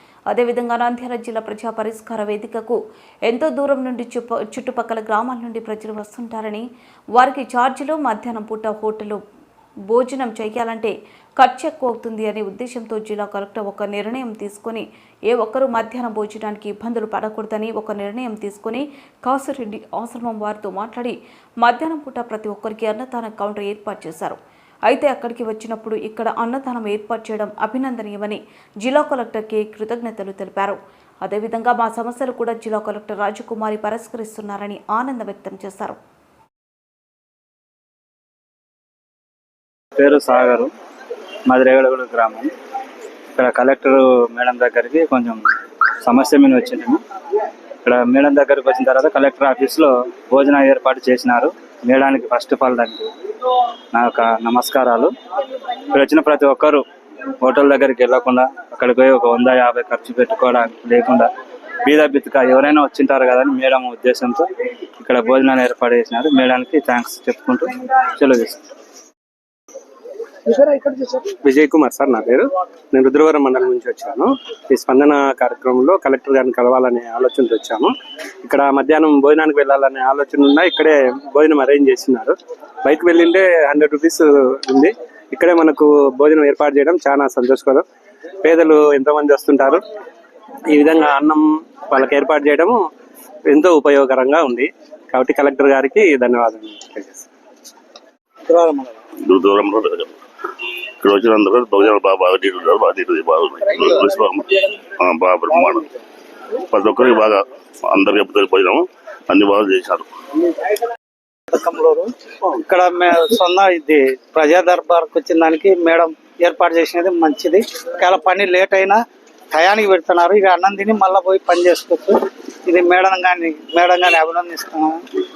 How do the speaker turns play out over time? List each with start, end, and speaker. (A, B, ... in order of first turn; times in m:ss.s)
0:00.3-0:09.2 A
0:09.9-0:36.0 A
0:40.0-0:40.7 B
0:41.5-0:42.5 B
0:43.3-0:45.4 B
0:46.0-0:47.0 B
0:47.8-0:53.1 B
0:53.9-0:55.1 B
0:55.9-0:56.8 B
0:57.4-1:01.3 B
1:01.8-1:04.4 B
1:05.0-1:08.6 B
1:10.5-1:17.9 C
1:18.4-1:27.8 C
1:28.4-1:29.8 C
1:30.7-1:32.9 C
1:33.5-1:37.2 C
1:38.5-1:39.0 D
1:39.2-1:40.2 E
1:41.0-1:45.9 E
1:46.5-1:50.1 E
1:51.5-2:05.0 D